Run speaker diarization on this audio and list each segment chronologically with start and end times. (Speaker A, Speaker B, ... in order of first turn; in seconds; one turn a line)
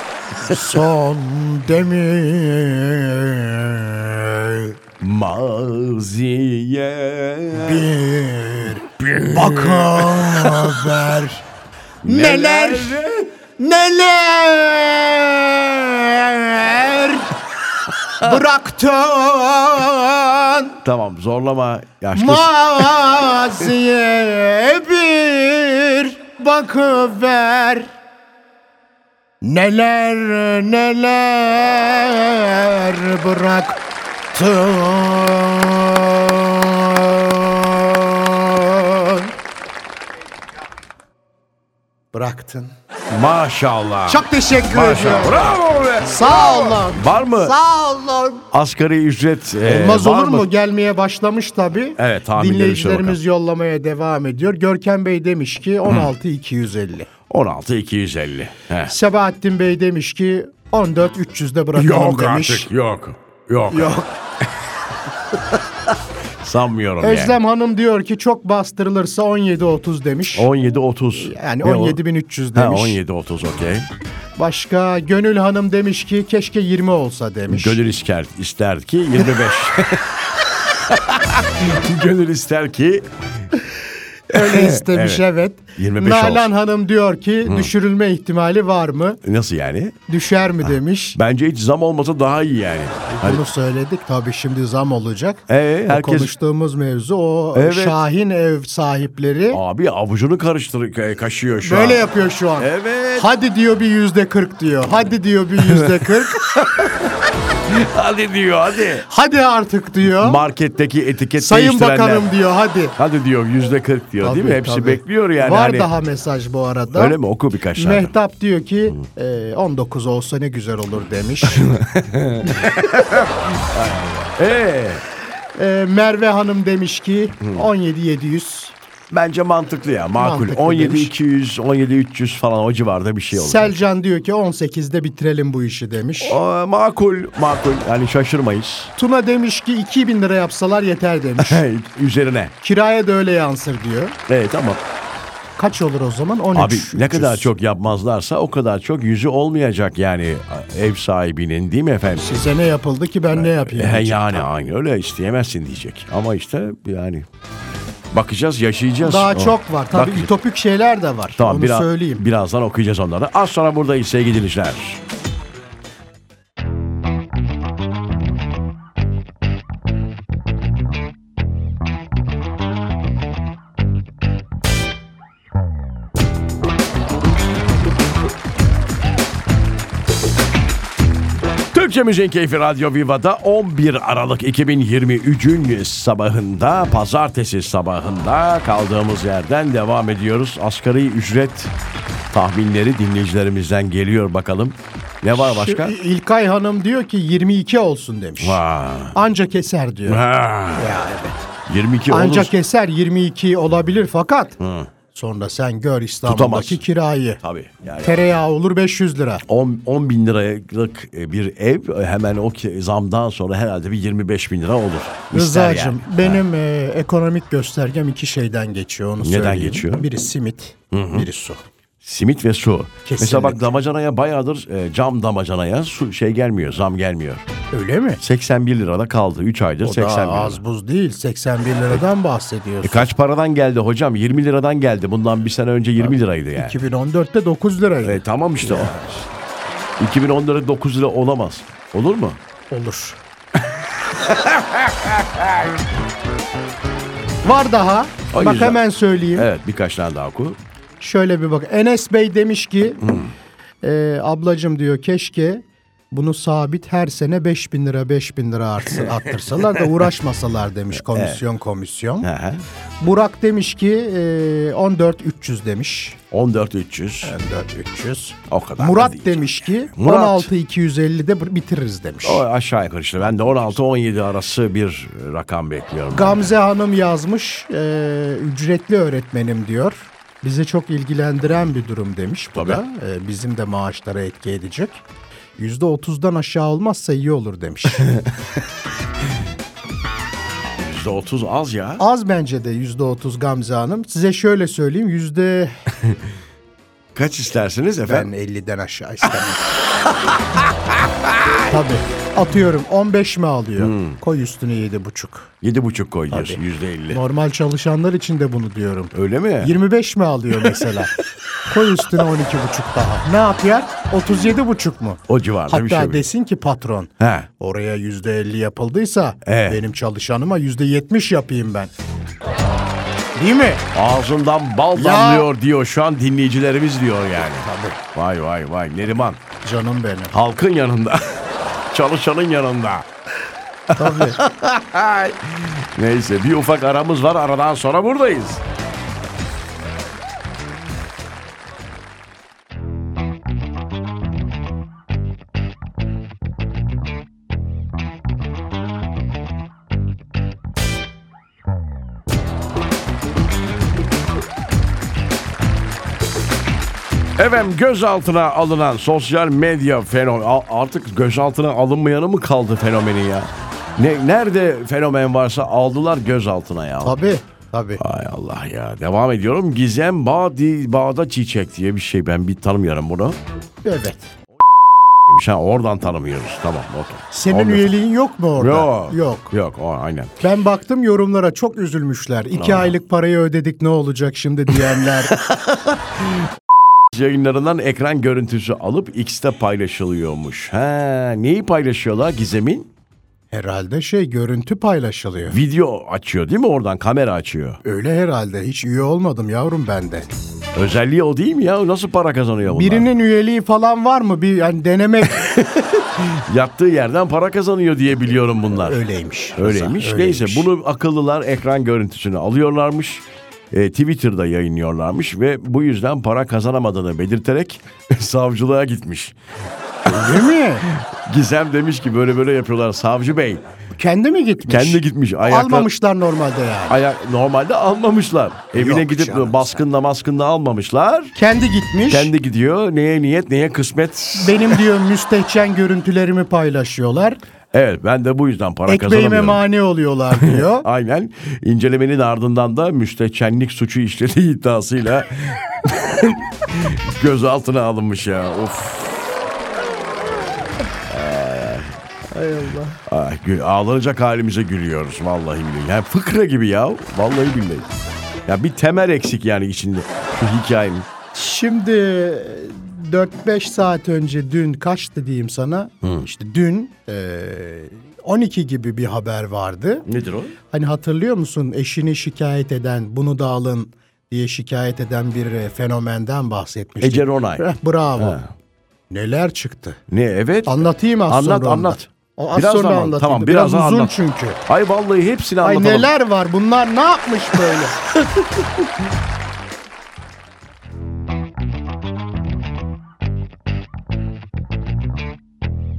Speaker A: 0.5-4.7
Speaker B: 5.0-7.9
Speaker A: 7.5-11.4
Speaker B: 9.0-11.1
Speaker B: 12.0-13.1
Speaker A: 12.0-17.3
Speaker A: 18.2-20.8
Speaker B: 20.8-23.1
Speaker A: 22.1-27.9
Speaker A: 29.4-39.3
Speaker A: 42.1-42.7
Speaker B: 43.1-47.5
Speaker A: 44.1-48.4
Speaker B: 48.5-50.5
Speaker A: 49.6-57.1
Speaker B: 52.0-53.2
Speaker B: 55.9-56.1
Speaker B: 57.3-58.9
Speaker A: 58.9-62.7
Speaker B: 61.7-64.0
Speaker A: 63.7-64.1
Speaker B: 66.4-67.4
Speaker A: 67.0-70.5
Speaker B: 70.3-72.0
Speaker A: 71.1-73.0
Speaker B: 72.5-73.9
Speaker A: 74.4-77.8
Speaker B: 77.5-83.1
Speaker A: 84.3-89.2
Speaker B: 84.3-85.2
Speaker B: 85.8-86.5
Speaker B: 87.4-87.7
Speaker B: 89.2-89.9
Speaker A: 90.1-91.2
Speaker B: 90.6-93.4
Speaker A: 93.1-99.6
Speaker B: 95.5-96.3
Speaker B: 97.5-98.0
Speaker B: 99.5-103.3
Speaker A: 101.6-106.4
Speaker B: 105.6-107.0
Speaker B: 107.7-109.1
Speaker A: 109.1-110.4
Speaker B: 110.0-112.3
Speaker A: 111.4-113.0
Speaker B: 113.0-115.9
Speaker A: 114.2-117.2
Speaker B: 116.9-118.1
Speaker A: 117.8-121.7
Speaker B: 121.6-125.0
Speaker A: 125.5-128.8
Speaker B: 127.4-127.7
Speaker B: 129.1-133.8
Speaker A: 130.2-131.1
Speaker A: 133.3-136.4
Speaker B: 136.2-138.9
Speaker A: 138.9-141.6
Speaker B: 141.4-142.5
Speaker A: 142.6-144.1
Speaker B: 144.3-144.8
Speaker A: 145.6-147.5
Speaker B: 146.5-152.2
Speaker A: 152.2-154.5
Speaker B: 153.3-157.2
Speaker B: 158.1-160.3
Speaker A: 159.0-162.2
Speaker B: 161.4-165.0
Speaker B: 181.7-191.7
Speaker B: 192.3-195.9
Speaker A: 195.3-198.6
Speaker B: 198.4-199.2
Speaker A: 199.1-201.4
Speaker B: 200.1-201.0
Speaker B: 201.7-202.5
Speaker A: 202.1-204.6
Speaker B: 204.6-204.9
Speaker A: 205.1-207.4
Speaker B: 206.2-206.8
Speaker B: 207.4-208.2
Speaker A: 208.0-209.4
Speaker B: 209.4-216.4
Speaker A: 215.3-221.6
Speaker B: 219.2-220.1
Speaker B: 220.9-221.3
Speaker B: 222.0-227.4
Speaker A: 223.1-223.6
Speaker A: 227.7-228.2
Speaker B: 228.2-230.6
Speaker A: 229.8-233.1
Speaker B: 232.8-236.8
Speaker A: 236.1-239.1
Speaker B: 238.0-239.2
Speaker B: 240.0-242.4
Speaker A: 242.7-243.2
Speaker B: 244.2-245.2
Speaker A: 247.4-249.5
Speaker B: 248.3-248.8
Speaker B: 249.3-250.6
Speaker A: 251.0-253.0
Speaker B: 253.0-253.3
Speaker A: 253.8-262.3
Speaker B: 258.9-260.0
Speaker B: 261.0-261.4
Speaker B: 262.2-262.6
Speaker A: 263.0-266.2
Speaker B: 266.3-267.3
Speaker A: 267.2-272.4
Speaker B: 268.5-270.5
Speaker B: 272.2-276.5
Speaker A: 276.1-285.0
Speaker B: 282.6-282.8
Speaker A: 285.6-288.1
Speaker B: 290.8-292.0
Speaker A: 292.0-295.7
Speaker B: 297.1-298.3
Speaker A: 298.1-299.7
Speaker A: 301.7-305.5
Speaker B: 303.8-304.2
Speaker B: 305.6-307.2
Speaker A: 306.3-311.1
Speaker B: 309.1-309.8
Speaker B: 310.6-311.0
Speaker A: 311.7-321.9
Speaker B: 315.3-316.3
Speaker B: 317.2-317.5
Speaker B: 319.4-319.8
Speaker A: 323.3-323.8
Speaker B: 323.9-329.4
Speaker A: 324.9-325.5
Speaker A: 327.6-328.0
Speaker A: 329.6-330.3
Speaker B: 330.3-333.1
Speaker B: 333.9-338.6
Speaker A: 333.9-334.4
Speaker B: 357.4-367.2
Speaker A: 367.0-368.0
Speaker B: 368.0-373.4
Speaker A: 373.8-374.3
Speaker B: 375.3-377.9
Speaker A: 377.3-379.5
Speaker B: 378.6-380.3
Speaker A: 380.4-385.4
Speaker B: 382.6-382.9
Speaker B: 384.7-386.5
Speaker B: 387.1-392.9
Speaker A: 393.5-395.6
Speaker B: 395.5-397.8
Speaker A: 397.8-400.3
Speaker B: 400.7-403.1
Speaker A: 402.6-405.6
Speaker B: 405.3-409.0
Speaker A: 408.7-410.7
Speaker B: 409.6-419.4
Speaker B: 420.1-423.6
Speaker A: 420.1-420.9
Speaker A: 423.9-427.0
Speaker B: 424.7-425.9
Speaker B: 426.9-431.3
Speaker A: 428.7-429.8
Speaker A: 431.3-432.3
Speaker B: 432.1-434.8
Speaker A: 434.4-437.4
Speaker B: 437.7-439.6
Speaker A: 438.9-440.9
Speaker B: 440.4-449.3
Speaker B: 451.1-451.9
Speaker A: 452.3-453.0
Speaker B: 453.1-457.9
Speaker B: 458.5-461.1
Speaker A: 461.3-470.1
Speaker B: 470.1-470.6
Speaker A: 470.7-478.4
Speaker B: 477.0-477.7
Speaker B: 478.2-478.5
Speaker A: 479.1-480.0
Speaker B: 480.1-486.1
Speaker A: 480.7-484.6
Speaker A: 485.6-488.0
Speaker B: 487.7-488.4